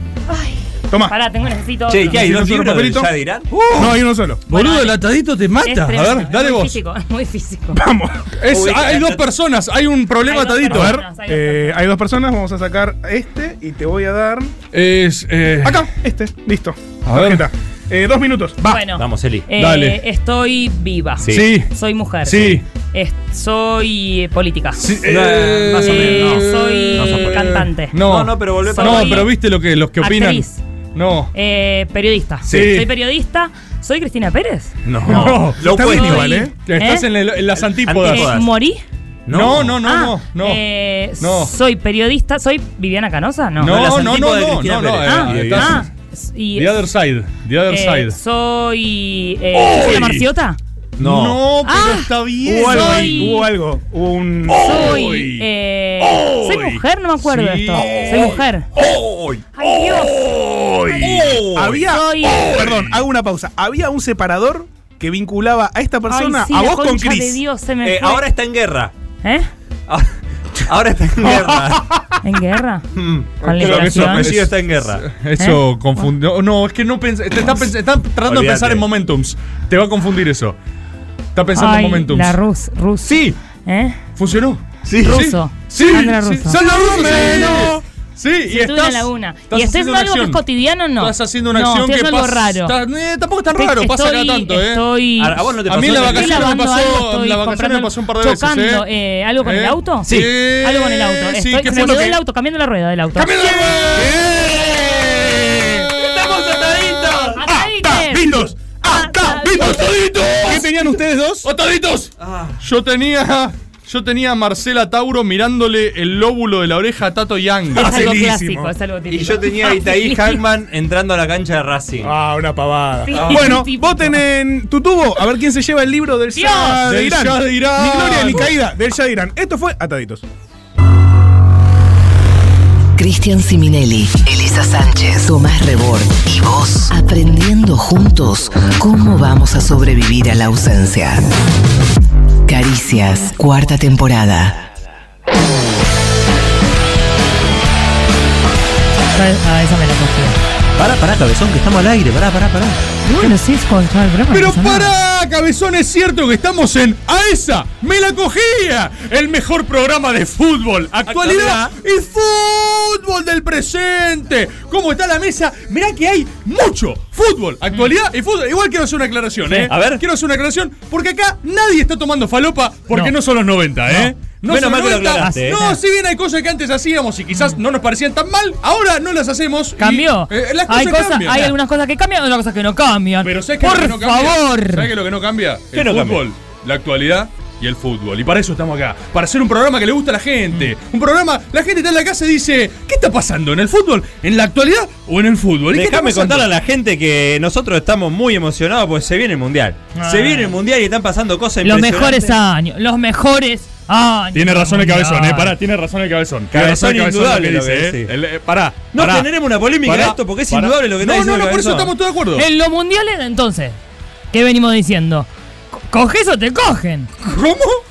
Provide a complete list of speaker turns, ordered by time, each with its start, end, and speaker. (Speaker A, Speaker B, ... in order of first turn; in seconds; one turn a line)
Speaker A: 0.3-2.2
Speaker B: 1.9-3.5
Speaker C: 2.1-3.0
Speaker D: 2.3-3.1
Speaker C: 3.5-6.8
Speaker D: 3.7-4.4
Speaker A: 4.5-5.0
Speaker A: 5.6-7.8
Speaker D: 7.7-8.3
Speaker C: 8.4-11.0
Speaker B: 8.5-9.2
Speaker A: 10.2-11.8
Speaker D: 10.7-14.5
Speaker C: 14.7-15.8
Speaker D: 15.6-18.8
Speaker C: 17.1-17.4
Speaker A: 18.6-24.9
Speaker B: 18.9-19.4
Speaker C: 19.6-20.0
Speaker B: 21.2-21.5
Speaker C: 21.3-21.7
Speaker C: 22.2-22.6
Speaker C: 24.8-31.3
Speaker B: 25.0-26.4
Speaker A: 25.8-27.9
Speaker B: 26.9-29.3
Speaker A: 28.6-29.3
Speaker A: 30.0-30.6
Speaker A: 31.3-34.7
Speaker B: 32.5-32.7
Speaker C: 32.5-32.9
Speaker D: 34.9-36.5
Speaker B: 34.9-36.5
Speaker C: 35.1-38.3
Speaker A: 35.8-37.1
Speaker B: 37.8-38.5
Speaker A: 38.0-38.8
Speaker B: 39.3-39.8
Speaker C: 39.3-40.6
Speaker A: 39.8-43.8
Speaker C: 41.2-41.5
Speaker B: 43.6-45.8
Speaker C: 43.6-45.9
Speaker A: 45.0-46.8
Speaker C: 46.5-48.1
Speaker A: 47.7-50.6
Speaker C: 49.5-50.2
Speaker C: 51.0-53.4
Speaker B: 51.0-51.4
Speaker A: 51.6-53.5
Speaker D: 52.4-55.0
Speaker C: 54.5-55.5
Speaker A: 54.6-58.7
Speaker C: 56.0-63.0
Speaker B: 57.8-58.2
Speaker A: 59.5-60.2
Speaker A: 60.9-61.2
Speaker B: 61.2-61.5
Speaker D: 61.5-67.4
Speaker A: 61.8-62.5
Speaker A: 66.1-68.2
Speaker B: 67.8-68.9
Speaker B: 69.9-71.8
Speaker C: 71.2-72.0
Speaker A: 72.2-72.8
Speaker B: 72.9-75.0
Speaker A: 73.4-74.3
Speaker C: 73.4-80.5
Speaker A: 75.4-76.1
Speaker B: 78.3-78.8
Speaker C: 81.3-82.3
Speaker A: 81.5-84.0
Speaker B: 83.0-83.3
Speaker C: 84.2-90.4
Speaker B: 84.8-85.2
Speaker A: 85.0-87.8
Speaker A: 88.5-92.7
Speaker C: 91.0-94.8
Speaker A: 93.5-103.8
Speaker B: 95.2-96.5
Speaker C: 95.7-98.8
Speaker C: 99.4-102.2
Speaker B: 100.1-100.3
Speaker D: 101.7-102.0
Speaker C: 103.2-107.4
Speaker B: 105.9-107.4
Speaker A: 107.4-109.9
Speaker D: 107.4-109.9
Speaker C: 109.4-110.7
Speaker D: 110.4-111.5
Speaker C: 111.4-118.1
Speaker B: 112.2-112.6
Speaker D: 117.7-118.7
Speaker A: 117.7-120.4
Speaker B: 119.1-122.1
Speaker D: 122.0-130.2
Speaker A: 123.1-124.2
Speaker B: 123.1-123.6
Speaker A: 126.3-126.8
Speaker C: 126.8-128.5
Speaker E: 133.0-141.2
Speaker E: 142.5-144.7
Speaker A: 149.1-150.4
Speaker B: 150.8-152.8
Speaker A: 153.1-154.9
Speaker C: 154.3-181.5
Speaker B: 161.1-161.7
Speaker B: 169.7-170.0
Speaker B: 174.4-175.6
Speaker A: 175.2-175.8
Speaker A: 179.8-184.9
Speaker C: 183.2-196.5
Speaker B: 185.7-186.2
Speaker B: 195.7-202.3
Speaker A: 199.9-200.5
Speaker A: 201.6-205.5
Speaker C: 204.3-212.5
Speaker B: 206.5-208.1
Speaker B: 208.9-211.9
Speaker A: 212.4-213.8
Speaker A: 214.3-215.3
Speaker A: 215.9-217.1
Speaker C: 217.2-217.8